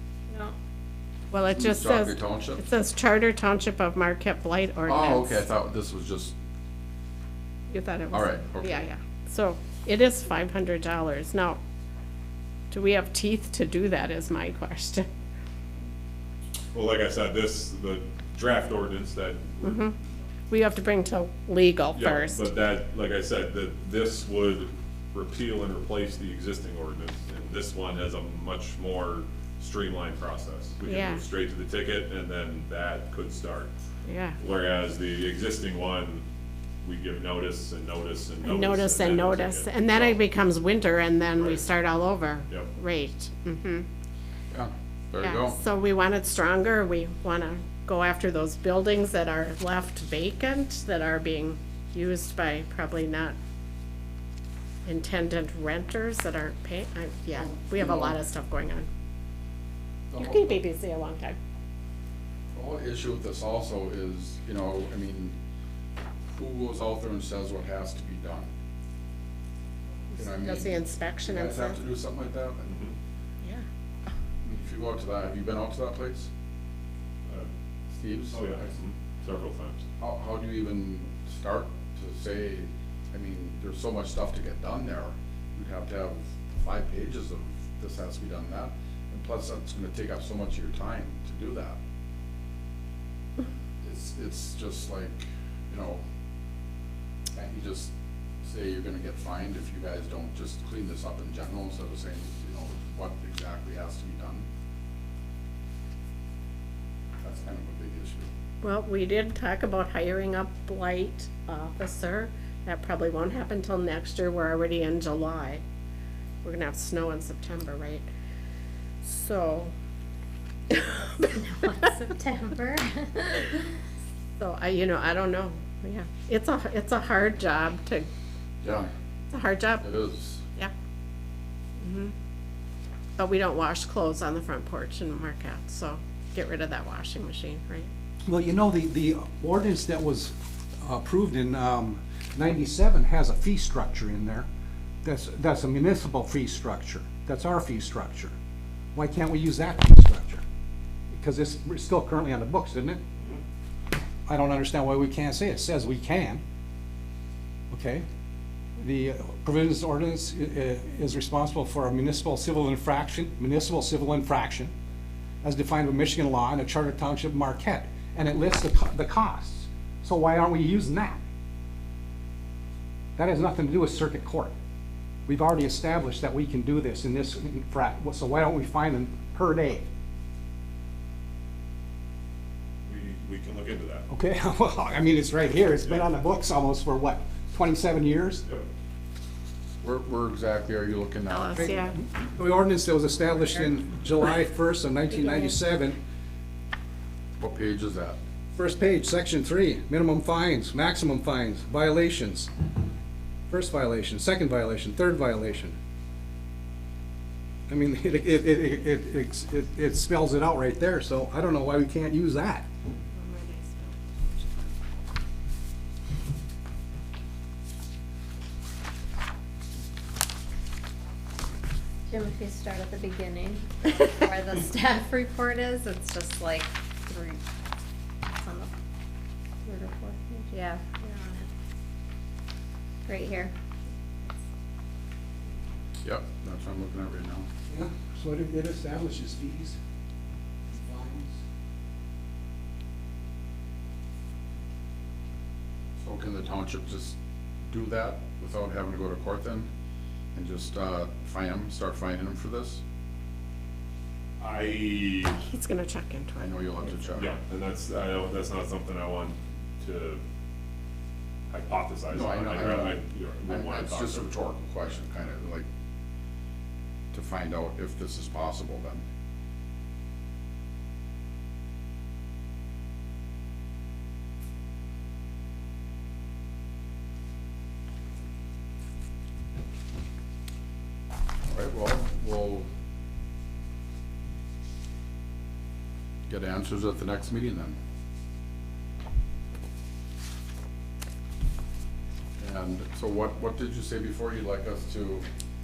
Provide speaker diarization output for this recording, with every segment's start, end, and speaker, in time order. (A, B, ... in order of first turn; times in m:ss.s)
0:00.3-0:00.5 A
0:01.3-0:05.5 B
0:01.5-0:02.6 C
0:04.9-0:06.3 C
0:07.7-0:11.6 B
0:08.1-0:08.9 C
0:12.7-0:15.0 B
0:16.7-0:19.8 D
0:19.6-0:20.0 B
0:20.5-0:22.5 B
0:21.9-0:33.7 D
0:30.9-0:31.2 B
0:34.0-0:34.4 B
0:34.4-0:36.2 D
0:36.8-0:40.2 D
0:38.4-0:43.8 B
0:41.3-0:41.6 D
0:44.5-0:45.6 C
0:45.2-0:53.4 B
0:54.8-0:58.9 B
0:57.4-0:58.2 C
1:00.1-1:00.6 C
1:00.1-1:01.4 B
1:02.6-1:05.4 C
1:06.3-1:08.5 C
1:10.1-1:11.8 B
1:10.2-1:12.7 C
1:12.6-1:12.9 D
1:14.4-1:16.3 C
1:17.9-1:18.8 C
1:18.3-1:19.8 D
1:20.0-1:31.8 C
1:33.8-1:36.0 C
1:37.3-1:44.5 C
1:47.2-1:48.3 C
1:48.6-1:55.6 B
1:56.4-1:58.0 B
1:59.0-1:59.7 B
2:00.7-2:01.9 B
2:01.3-2:03.7 A
2:04.4-2:08.1 B
2:08.6-2:08.9 C
2:09.3-2:09.9 B
2:09.8-2:10.4 C
2:11.8-2:12.1 B
2:13.2-2:17.9 B
2:18.2-2:24.5 E
2:25.0-2:28.3 E
2:28.9-2:30.4 E
2:31.1-2:33.0 E
2:34.3-2:36.4 E
2:37.7-2:38.1 E
2:38.8-2:44.7 E
2:45.4-2:51.2 E
2:53.2-2:54.5 E
2:55.3-2:59.9 E
3:02.8-3:04.0 D
3:04.1-3:08.4 E
3:09.8-3:11.8 C
3:11.3-3:12.0 B
3:11.6-3:16.0 E
3:15.1-3:15.6 A
3:17.4-3:18.2 C
3:18.6-3:22.5 E
3:23.5-3:25.8 E
3:27.7-3:32.7 E
3:33.1-3:34.7 B
3:42.1-3:47.4 A
3:48.2-3:48.7 A
3:49.6-3:51.5 A
3:53.1-3:53.5 A
3:56.0-3:57.5 C
3:57.7-3:59.8 E
4:00.7-4:01.4 E
4:06.0-4:09.7 C
4:10.3-4:12.8 C
4:14.4-4:15.4 D
4:15.4-4:17.3 B
4:16.4-4:17.4 C
4:17.1-4:20.2 D
4:21.5-4:24.3 D
4:22.1-4:25.7 C
4:27.1-4:29.0 C
4:41.4-4:42.7 C
4:46.3-4:47.8 C
4:52.4-4:55.2 C